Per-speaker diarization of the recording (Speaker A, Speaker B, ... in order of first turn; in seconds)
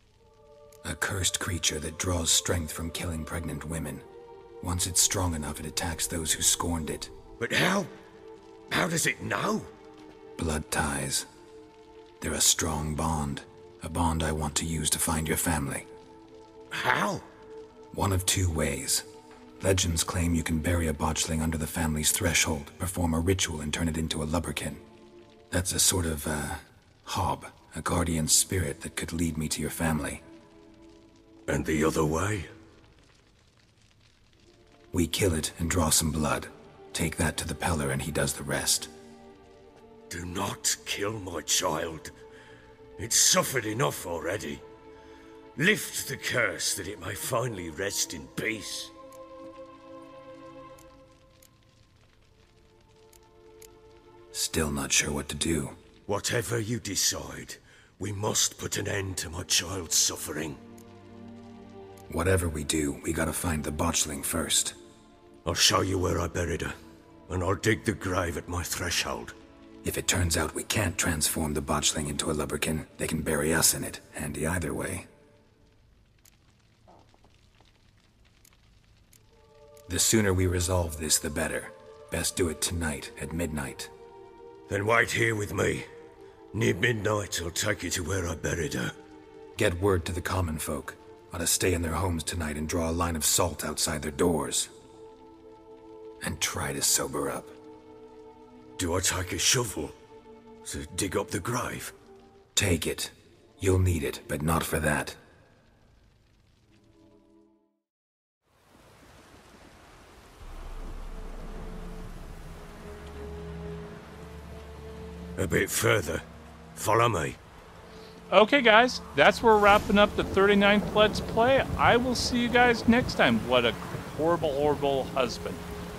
Speaker A: 0.8-4.0, 4.6-7.1, 10.4-11.3, 12.2-15.9, 17.9-19.1, 19.6-24.8, 25.5-30.2, 34.9-38.9, 54.3-55.8, 62.1-64.8, 69.8-75.1, 79.9-83.9, 89.5-94.7, 96.2-97.5, 102.5-105.2
Speaker B: 7.4-7.9, 8.7-9.7, 16.7-17.2, 31.5-32.5, 40.1-42.1, 43.0-44.6, 45.6-48.9, 56.1-60.6, 65.5-66.7, 67.3-69.3, 84.7-85.9, 86.5-88.9, 98.8-100.0, 100.6-101.9, 115.4-116.2, 116.7-117.4
Speaker C: 118.3-125.6